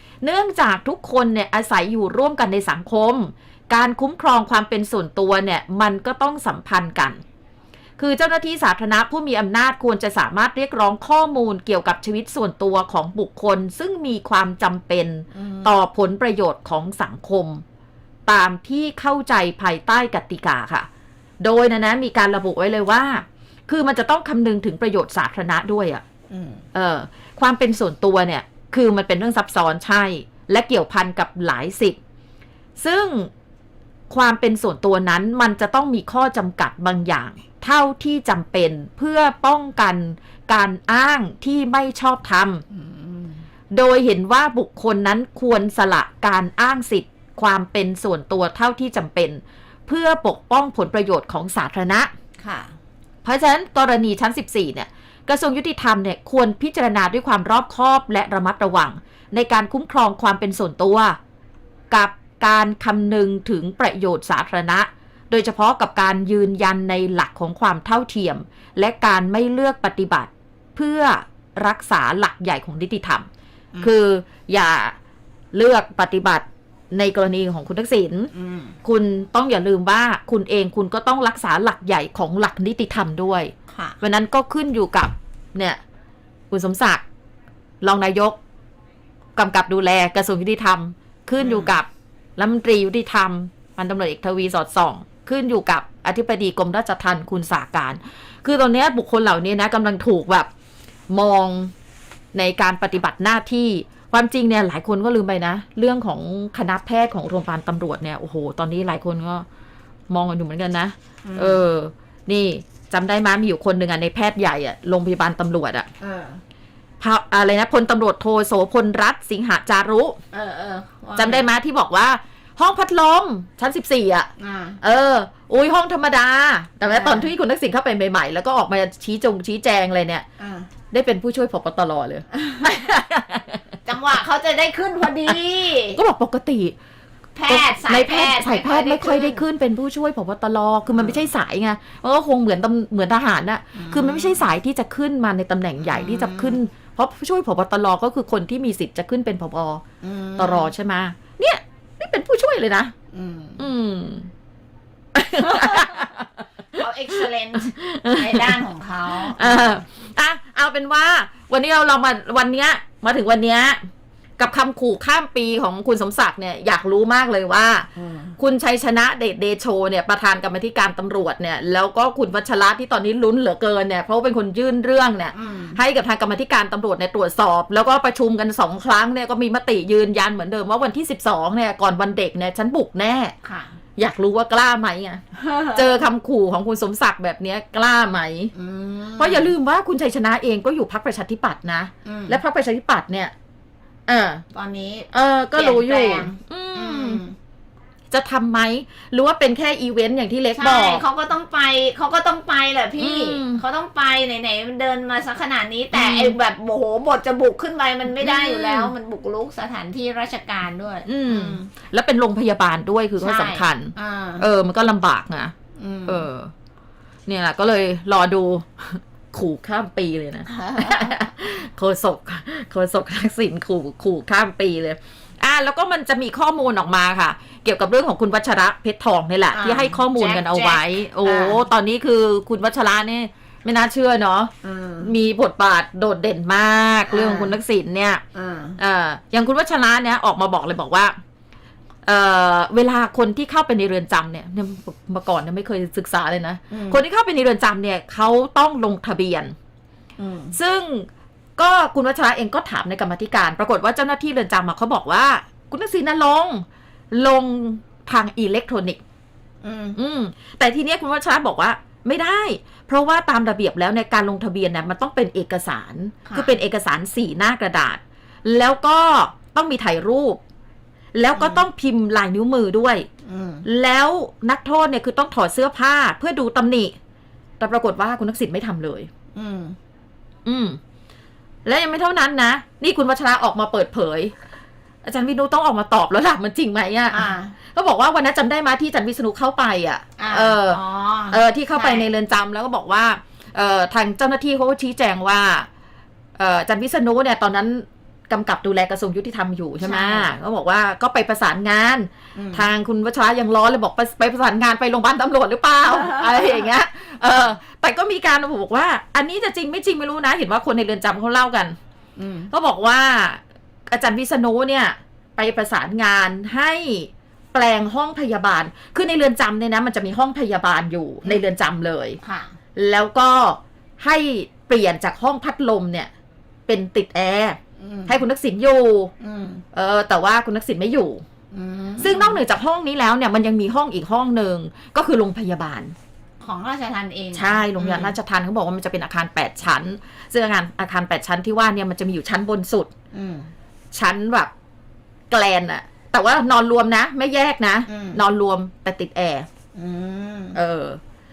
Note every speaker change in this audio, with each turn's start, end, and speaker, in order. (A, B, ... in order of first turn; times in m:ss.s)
0:00.2-0:07.2 A
0:08.0-0:17.6 A
0:15.3-0:15.7 B
0:18.3-0:20.9 A
0:21.4-0:26.0 A
0:26.3-0:26.6 B
0:26.7-0:32.0 A
0:32.8-0:33.3 A
0:34.1-0:42.6 A
0:42.7-0:43.4 B
0:43.7-0:52.1 A
0:52.4-0:52.7 B
0:53.2-1:01.2 A
1:01.9-1:13.3 A
1:13.8-1:14.9 A
1:15.5-1:18.3 A
1:18.3-1:18.8 B
1:18.8-1:25.8 A
1:23.7-1:24.0 B
1:26.5-1:27.0 A
1:27.8-1:28.4 A
1:29.4-1:40.5 A
1:31.4-1:31.7 B
1:41.1-1:41.7 A
1:42.3-1:49.4 A
1:50.1-1:55.9 A
1:51.2-1:51.6 B
1:56.0-1:56.4 B
1:57.0-2:00.2 A
2:00.3-2:01.4 B
2:01.2-2:04.3 A
2:04.4-2:04.8 B
2:04.8-2:10.2 A
2:06.8-2:07.3 B
2:10.4-2:10.7 B
2:10.9-2:13.6 A
2:12.4-2:12.7 B
2:13.8-2:16.0 B
2:15.9-2:16.7 A
2:17.3-2:19.4 B
2:17.5-2:29.8 A
2:20.9-2:21.2 B
2:23.7-2:24.4 B
2:25.8-2:26.6 B
2:30.0-2:30.7 B
2:30.4-2:32.9 A
2:33.1-2:33.6 B
2:33.6-2:34.3 A
2:35.1-2:36.8 A
2:36.7-2:39.8 B
2:37.7-2:38.6 A
2:39.2-2:43.8 A
2:44.4-3:03.3 A
2:48.0-2:48.3 B
2:55.3-2:55.8 B
3:03.4-3:03.7 B
3:04.0-3:08.5 A
3:05.3-3:05.9 B
3:08.5-3:09.5 B
3:09.2-3:13.3 A
3:12.0-3:12.4 B
3:14.1-3:14.4 A
3:14.5-3:17.4 B
3:15.1-3:17.2 A
3:18.1-3:21.0 A
3:20.5-3:31.7 B
3:23.0-3:23.6 A
3:25.9-3:26.3 A
3:28.2-3:28.9 A
3:31.1-3:35.5 A
3:33.2-3:34.4 B
3:35.8-3:36.2 B
3:36.1-3:36.5 A
3:37.3-3:58.2 A
3:40.5-3:41.1 B
3:49.5-3:51.6 B
3:54.6-3:55.1 B
3:57.1-3:57.6 B
3:58.3-3:58.8 B
3:58.8-4:01.1 A
4:02.0-4:09.5 A
4:06.7-4:07.0 B
4:10.2-4:10.5 B
4:10.5-4:19.0 A
4:19.6-4:20.0 B
4:19.9-4:30.4 A
4:26.3-4:26.5 B
4:31.1-4:33.1 A
4:31.3-4:31.6 B
4:33.2-4:33.6 B
4:33.6-4:36.9 A
4:37.6-4:39.1 A
4:39.3-4:39.8 B
4:40.4-4:40.8 A
4:41.6-4:44.3 A
4:45.0-4:55.7 A
4:47.1-4:47.5 B
4:50.2-4:52.1 B
4:56.4-5:11.8 A
4:59.8-5:00.3 B
5:02.3-5:02.7 B
5:05.8-5:06.7 B
5:12.2-5:12.5 B
5:12.5-5:22.2 A
5:22.2-5:22.5 B
5:22.7-5:26.1 A
5:26.7-5:29.1 A
5:27.8-5:28.2 B
5:29.2-5:29.6 B
5:29.7-5:31.2 A
5:31.5-5:32.4 B
5:32.0-5:35.9 A
5:36.4-5:38.1 B
5:37.3-5:42.9 A
5:43.1-5:43.5 B
5:43.9-5:44.5 A
5:45.3-5:49.5 A
5:47.9-5:48.2 B
5:49.7-5:50.6 B
5:50.5-5:51.0 A